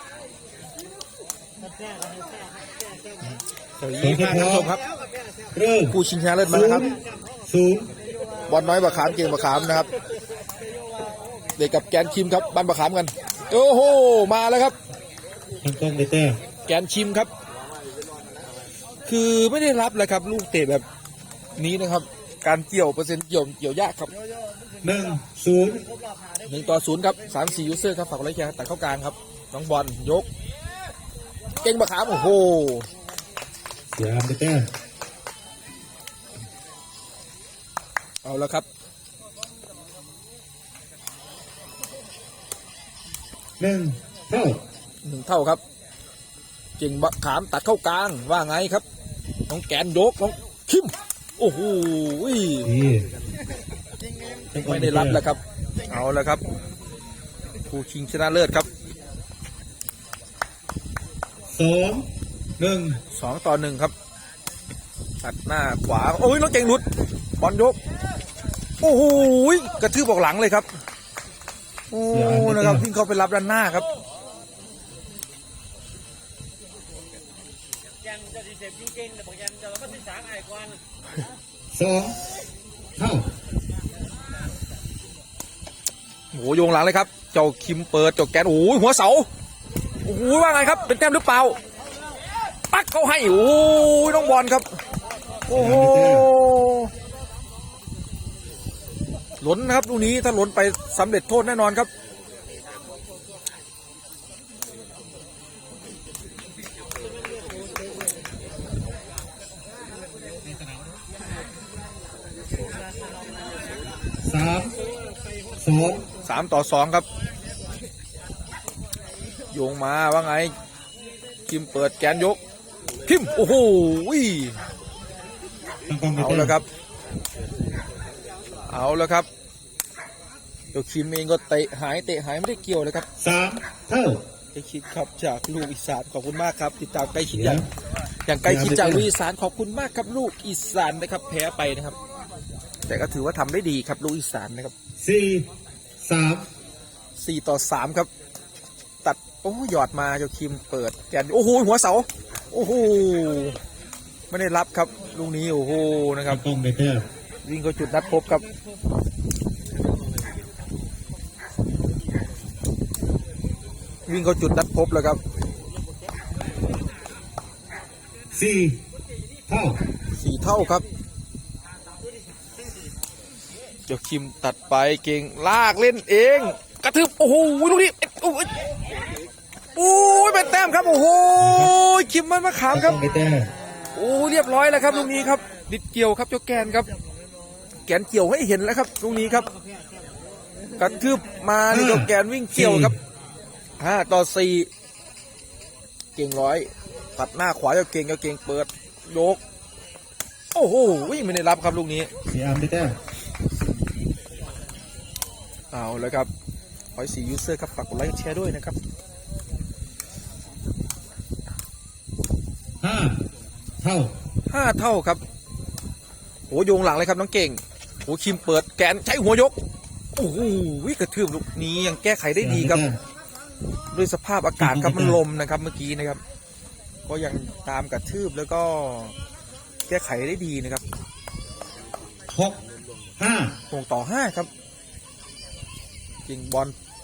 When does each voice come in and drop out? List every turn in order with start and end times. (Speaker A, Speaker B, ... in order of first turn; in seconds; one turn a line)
Speaker A: 1.6-3.2
Speaker B: 3.8-4.8
Speaker C: 4.0-4.7
Speaker C: 5.5-7.9
Speaker B: 5.9-6.9
Speaker A: 8.2-8.8
Speaker B: 8.5-9.9
Speaker A: 10.8-11.2
Speaker B: 11.6-14.8
Speaker C: 15.6-16.4
Speaker B: 16.6-17.3
Speaker B: 19.1-20.8
Speaker B: 21.6-24.1
Speaker C: 24.8-25.9
Speaker B: 26.4-30.3
Speaker B: 31.6-32.9
Speaker C: 33.9-34.7
Speaker B: 38.2-38.6
Speaker C: 43.6-44.6
Speaker B: 45.0-45.6
Speaker B: 46.8-48.8
Speaker B: 49.5-52.7
Speaker C: 52.6-53.1
Speaker C: 54.5-55.2
Speaker B: 54.5-56.4
Speaker B: 57.7-58.7
Speaker C: 61.5-63.0
Speaker B: 63.1-63.9
Speaker B: 65.2-66.8
Speaker B: 67.4-67.8
Speaker B: 68.8-70.7
Speaker B: 71.9-73.8
Speaker C: 72.1-72.8
Speaker A: 78.9-80.6
Speaker C: 81.7-82.2
Speaker C: 83.0-83.3
Speaker B: 86.3-89.3
Speaker B: 90.0-91.6
Speaker B: 92.7-94.7
Speaker B: 95.5-96.9
Speaker C: 95.5-96.3
Speaker B: 99.4-101.9
Speaker A: 107.0-108.1
Speaker A: 110.1-110.5
Speaker A: 112.7-113.7
Speaker C: 114.2-114.8
Speaker C: 115.6-116.0
Speaker B: 116.2-117.0
Speaker B: 119.5-120.5
Speaker B: 121.5-122.4
Speaker B: 123.0-124.6
Speaker C: 125.9-126.6
Speaker B: 126.2-126.7
Speaker B: 128.7-129.3
Speaker B: 130.7-133.1
Speaker C: 133.2-134.2
Speaker B: 134.5-137.6
Speaker C: 137.3-137.7
Speaker B: 138.2-141.9
Speaker C: 138.4-139.1
Speaker B: 142.9-144.7
Speaker C: 145.0-145.5
Speaker C: 146.0-146.5
Speaker B: 147.2-148.1
Speaker B: 149.0-153.6
Speaker B: 154.3-156.4
Speaker C: 156.3-157.1
Speaker B: 157.4-158.4
Speaker B: 164.1-165.2
Speaker C: 168.3-168.8
Speaker C: 169.5-169.8
Speaker B: 170.2-170.8
Speaker B: 173.9-178.5
Speaker B: 179.8-183.0
Speaker C: 181.4-181.7
Speaker C: 182.7-183.5
Speaker B: 183.9-186.9
Speaker B: 187.9-189.5
Speaker B: 190.8-192.9
Speaker C: 191.7-192.9
Speaker B: 193.8-194.7
Speaker B: 196.2-199.4
Speaker B: 200.5-202.1
Speaker C: 202.3-203.0
Speaker B: 205.7-206.3
Speaker B: 206.9-208.8
Speaker C: 212.8-213.2
Speaker C: 213.8-214.1
Speaker B: 214.5-215.2
Speaker B: 216.5-219.5
Speaker B: 220.2-222.8
Speaker C: 222.3-223.0
Speaker B: 223.9-226.2
Speaker C: 224.6-225.2
Speaker B: 227.1-229.1
Speaker B: 229.9-230.8
Speaker C: 232.3-232.6
Speaker C: 233.2-233.6
Speaker B: 233.7-234.5
Speaker B: 236.3-236.7